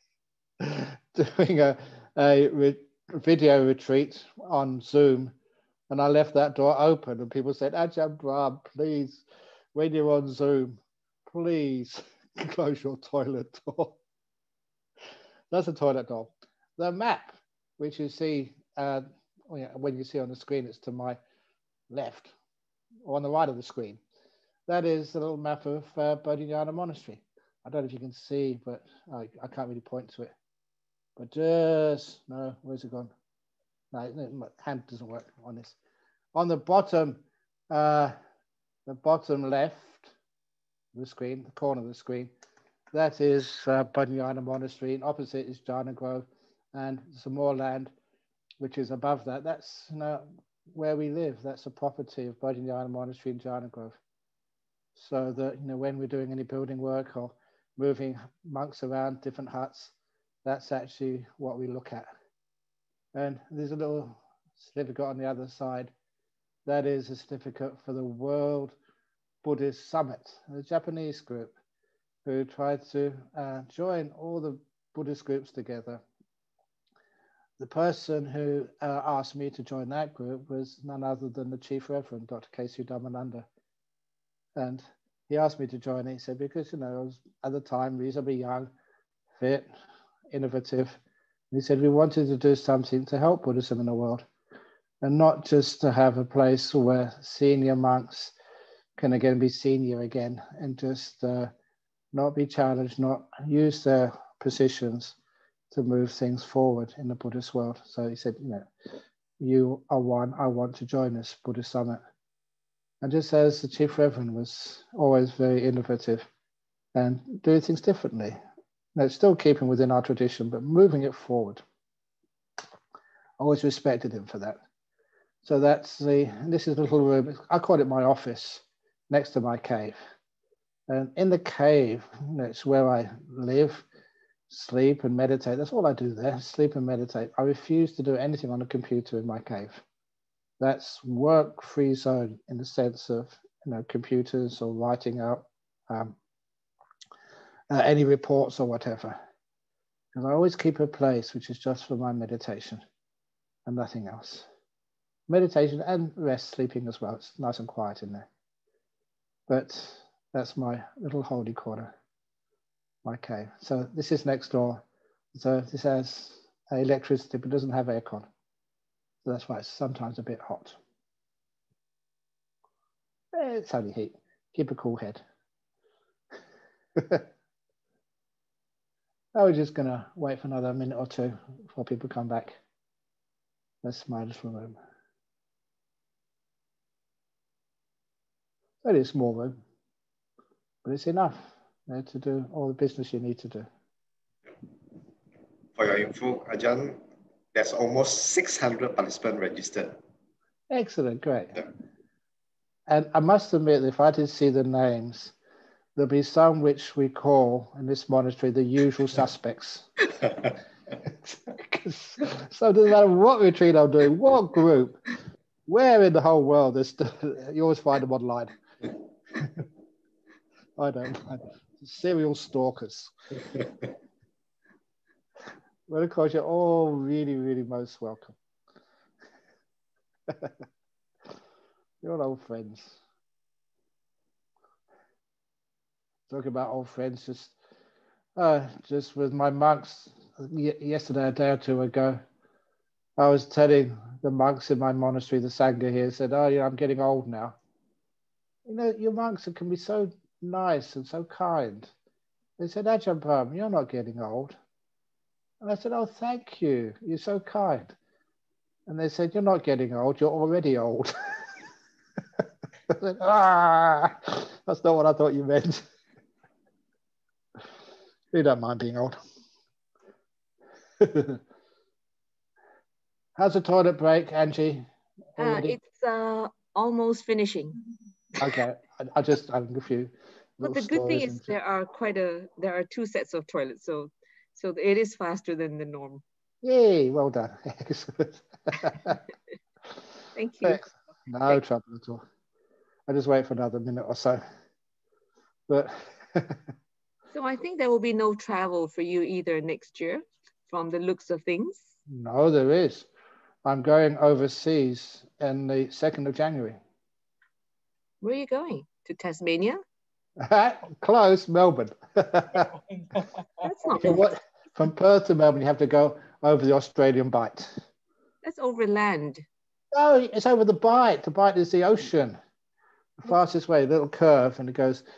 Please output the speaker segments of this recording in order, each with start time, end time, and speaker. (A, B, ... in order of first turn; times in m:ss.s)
0:00.6-0:05.3 A
0:05.9-0:14.0 A
0:15.5-0:21.2 A
0:21.9-0:22.4 A
0:23.0-0:24.0 A
0:24.7-0:30.3 A
0:31.2-0:33.1 A
0:33.9-0:35.8 A
0:36.4-0:38.2 A
0:38.9-0:40.1 A
0:40.9-0:42.3 A
0:42.9-0:47.9 A
0:48.6-0:54.0 A
0:55.0-1:02.1 A
1:03.1-1:05.9 A
1:06.7-1:08.8 A
1:09.4-1:11.6 A
1:12.2-1:16.0 A
1:17.6-1:23.5 A
1:24.6-1:28.7 A
1:29.4-1:29.7 A
1:30.3-1:34.3 A
1:35.0-1:38.4 A
1:39.0-1:41.5 A
1:42.1-1:45.2 A
1:45.7-1:48.7 A
1:49.4-1:52.0 A
1:53.0-1:56.3 A
1:57.0-1:58.4 A
1:59.0-2:01.6 A
2:03.4-2:04.6 A
2:05.4-2:10.0 A
2:10.9-2:13.9 A
2:14.5-2:19.8 A
2:20.6-2:26.2 A
2:27.7-2:29.2 A
2:30.1-2:32.8 A
2:33.7-2:34.5 A
2:35.3-2:38.3 A
2:39.5-2:41.9 A
2:43.0-2:44.8 A
2:45.3-2:48.3 A
2:49.2-2:50.8 A
2:53.3-2:55.2 A
2:57.0-2:57.2 A
2:59.4-3:02.6 A
3:03.8-3:04.8 A
3:08.8-3:09.6 A
3:10.8-3:13.7 A
3:15.8-3:17.0 B
3:17.5-3:20.0 B
3:20.7-3:21.6 A
3:22.9-3:25.4 A
3:26.0-3:29.9 A
3:31.0-3:35.1 A
3:35.7-3:38.6 A
3:40.8-3:43.1 A
3:45.9-3:48.4 A
3:52.0-3:53.0 A
3:56.3-3:57.6 A
3:58.4-4:02.2 A
4:03.2-4:07.6 A
4:08.7-4:11.9 A
4:12.6-4:14.6 A
4:15.6-4:18.0 A
4:18.9-4:21.1 A
4:22.9-4:25.8 A
4:28.3-4:29.2 A
4:31.0-4:31.4 A
4:33.4-4:34.9 A
4:35.4-4:35.8 A
4:35.4-4:37.8 C
4:38.4-4:41.5 A
4:40.6-4:46.2 C
4:46.6-4:49.2 A
4:50.4-4:50.9 C
4:50.6-4:52.2 A
4:53.1-4:54.4 A
4:55.7-4:56.6 A
4:57.3-5:01.9 C
5:02.1-5:03.1 A
5:03.6-5:06.8 A
5:08.2-5:09.8 C
5:10.4-5:12.7 A
5:13.6-5:14.3 C
5:14.0-5:17.7 A
5:18.4-5:19.4 C
5:19.9-5:22.4 A
5:23.2-5:25.0 A